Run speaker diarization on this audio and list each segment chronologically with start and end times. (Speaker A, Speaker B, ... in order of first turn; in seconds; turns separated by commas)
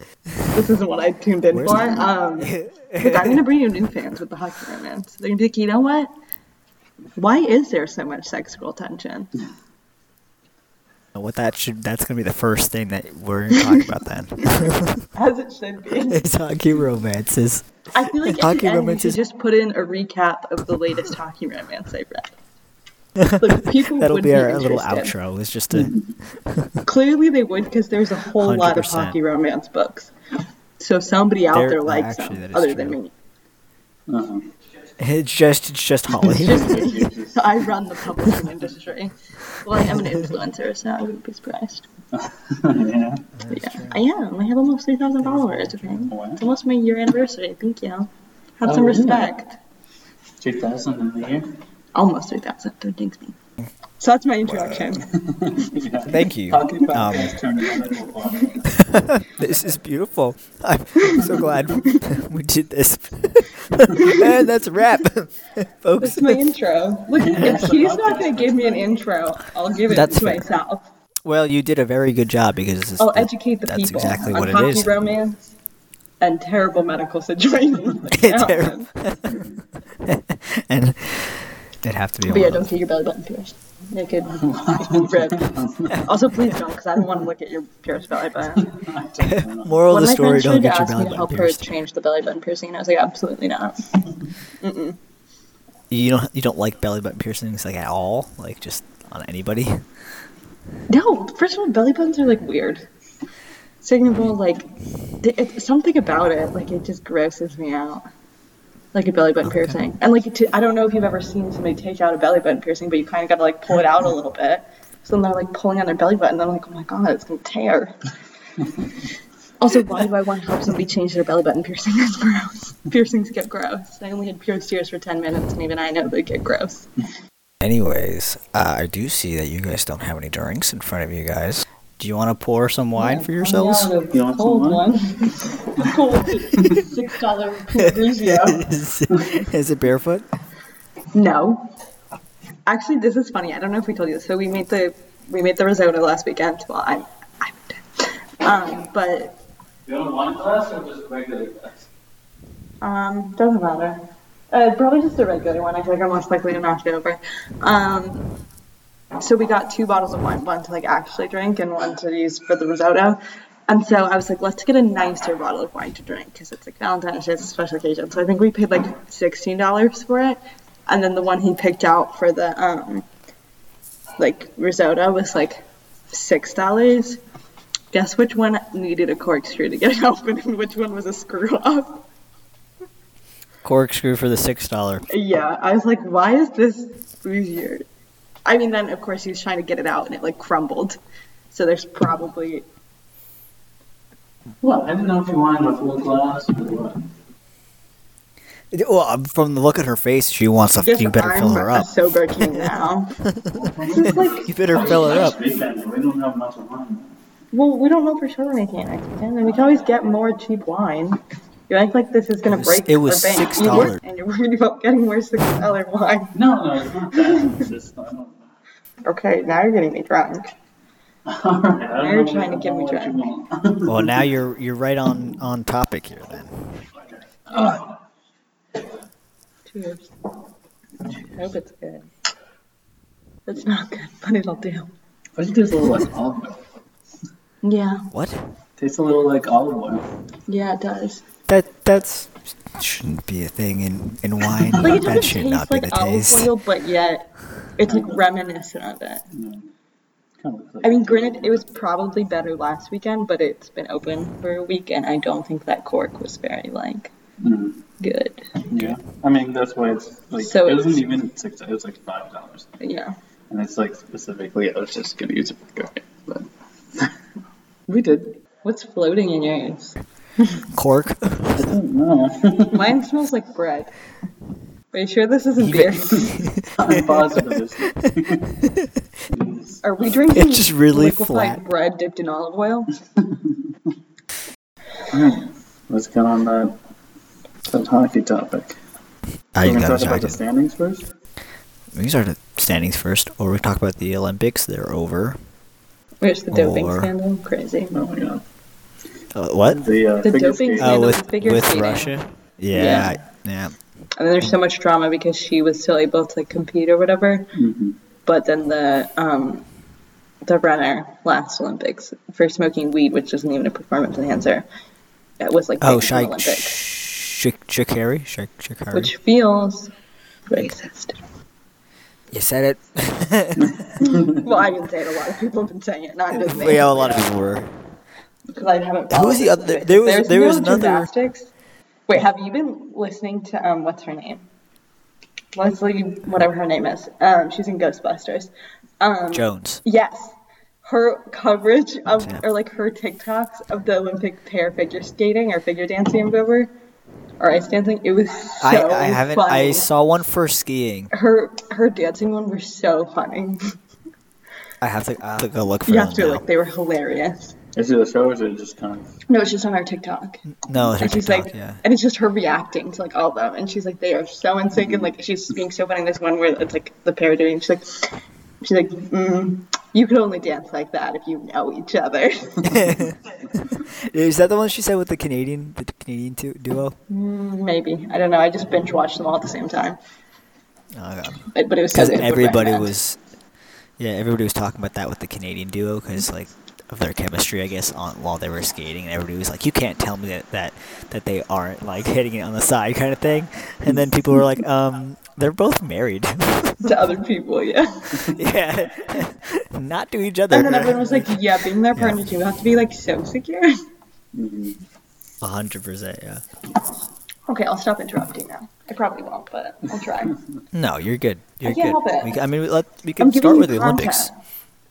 Speaker A: 0.5-6.1, Speaker B: 1.5-3.4, Speaker A: 7.2-9.3, Speaker B: 11.2-15.1, Speaker A: 14.4-16.2, Speaker B: 16.1-17.6, Speaker A: 17.9-22.3, Speaker B: 18.2-19.2, Speaker B: 23.2-25.9, Speaker A: 23.4-25.1, Speaker C: 25.7-26.1, Speaker B: 26.4-26.8, Speaker A: 26.8-30.1, Speaker B: 28.4-29.2, Speaker A: 30.8-33.1, Speaker B: 31.5-33.0, Speaker C: 34.1-34.5, Speaker B: 35.0-36.9, Speaker C: 36.1-37.7, Speaker A: 36.4-41.9, Speaker C: 42.1-43.2, Speaker B: 43.4-44.0, Speaker A: 43.5-49.6, Speaker B: 45.4-46.0, Speaker C: 46.0-46.4, Speaker C: 48.6-49.3, Speaker C: 50.4-51.5, Speaker A: 51.9-53.4, Speaker A: 54.0-55.1, Speaker B: 54.4-55.0, Speaker C: 55.1-58.7, Speaker B: 56.1-57.4, Speaker B: 58.7-66.4, Speaker A: 64.0-64.3, Speaker A: 66.0-70.9, Speaker C: 67.1-68.9, Speaker B: 69.9-70.4, Speaker B: 71.2-74.9, Speaker A: 73.0-75.4, Speaker A: 76.2-78.9, Speaker B: 78.1-79.4, Speaker B: 80.0-82.7, Speaker A: 82.3-88.8, Speaker C: 84.4-86.0, Speaker B: 85.9-86.2, Speaker C: 88.6-89.8, Speaker B: 89.2-91.7, Speaker A: 89.8-93.9, Speaker A: 94.6-95.0, Speaker B: 95.9-99.8, Speaker A: 100.9-102.9, Speaker A: 103.8-108.0, Speaker A: 108.9-118.0, Speaker B: 109.4-109.8, Speaker A: 119.6-126.9, Speaker B: 127.6-133.9, Speaker A: 133.0-138.7, Speaker C: 134.1-134.8, Speaker B: 137.8-140.2, Speaker A: 141.1-141.7, Speaker A: 142.7-149.4, Speaker C: 149.9-151.8, Speaker A: 152.8-158.3, Speaker A: 159.2-173.1, Speaker A: 174.2-177.2, Speaker A: 177.9-182.1, Speaker B: 183.6-185.0, Speaker A: 185.1-187.8, Speaker A: 188.4-191.0, Speaker A: 191.5-192.6, Speaker C: 194.6-197.1, Speaker B: 198.7-201.9, Speaker A: 200.8-203.2, Speaker B: 202.4-205.4, Speaker C: 203.5-207.2, Speaker A: 203.8-205.3, Speaker A: 207.5-216.3, Speaker B: 212.4-214.0, Speaker C: 216.3-218.5, Speaker A: 217.1-217.7, Speaker A: 219.0-220.5, Speaker C: 221.2-224.3, Speaker A: 222.0-223.3, Speaker B: 223.8-226.8, Speaker C: 227.5-227.9, Speaker A: 229.7-230.1, Speaker A: 231.3-232.1, Speaker A: 233.5-234.9, Speaker C: 235.3-236.6, Speaker A: 237.6-238.1, Speaker B: 238.1-238.4, Speaker C: 238.8-240.0, Speaker A: 240.5-241.2, Speaker B: 241.5-246.5, Speaker A: 244.8-249.2, Speaker C: 247.9-248.2, Speaker C: 249.3-249.7, Speaker C: 250.4-251.6, Speaker A: 250.8-257.1, Speaker C: 257.4-257.8, Speaker A: 258.0-258.7, Speaker C: 258.7-262.8, Speaker A: 260.4-261.0, Speaker A: 262.8-263.1, Speaker C: 263.5-267.1, Speaker C: 267.9-268.4, Speaker A: 268.6-270.6, Speaker B: 270.7-271.6, Speaker C: 271.6-272.9, Speaker A: 272.7-273.9, Speaker A: 274.9-276.4, Speaker B: 275.6-278.1, Speaker C: 276.1-278.6, Speaker B: 278.6-278.9, Speaker C: 279.3-280.0, Speaker A: 279.8-282.9, Speaker B: 280.3-281.6, Speaker C: 283.2-283.6, Speaker C: 285.1-286.8, Speaker C: 287.6-288.8, Speaker B: 289.5-290.4, Speaker C: 289.6-291.1, Speaker B: 291.9-295.4, Speaker A: 296.2-298.0, Speaker B: 296.5-297.1, Speaker C: 297.9-298.4, Speaker B: 299.3-299.9, Speaker C: 299.8-301.0, Speaker A: 300.2-302.1, Speaker B: 300.8-303.7, Speaker A: 302.7-303.1, Speaker A: 304.1-307.5, Speaker C: 307.5-308.0, Speaker A: 308.2-309.7, Speaker A: 310.4-314.6, Speaker A: 315.4-316.8, Speaker B: 315.8-319.1, Speaker A: 318.9-319.9, Speaker A: 320.5-321.2, Speaker B: 322.3-323.8, Speaker C: 323.8-324.4, Speaker A: 324.0-327.2, Speaker B: 326.4-327.7, Speaker A: 328.5-331.5, Speaker B: 329.1-331.1, Speaker A: 332.1-334.4, Speaker A: 335.5-346.7, Speaker B: 339.3-339.8, Speaker B: 342.1-342.4, Speaker A: 347.4-349.9, Speaker B: 348.6-351.1, Speaker A: 351.1-353.7, Speaker B: 354.8-356.4, Speaker A: 355.9-357.6, Speaker C: 357.7-359.1, Speaker A: 359.3-373.0, Speaker B: 360.5-361.8, Speaker B: 372.6-377.0, Speaker A: 377.1-380.0, Speaker B: 380.9-383.2, Speaker A: 381.5-382.9, Speaker B: 384.0-396.9, Speaker A: 396.8-398.3, Speaker B: 398.3-401.3, Speaker A: 400.5-403.8, Speaker B: 401.9-402.2, Speaker C: 404.3-404.8, Speaker B: 405.4-406.4, Speaker A: 407.5-410.4, Speaker B: 410.7-414.3, Speaker A: 411.6-412.4, Speaker A: 413.2-414.3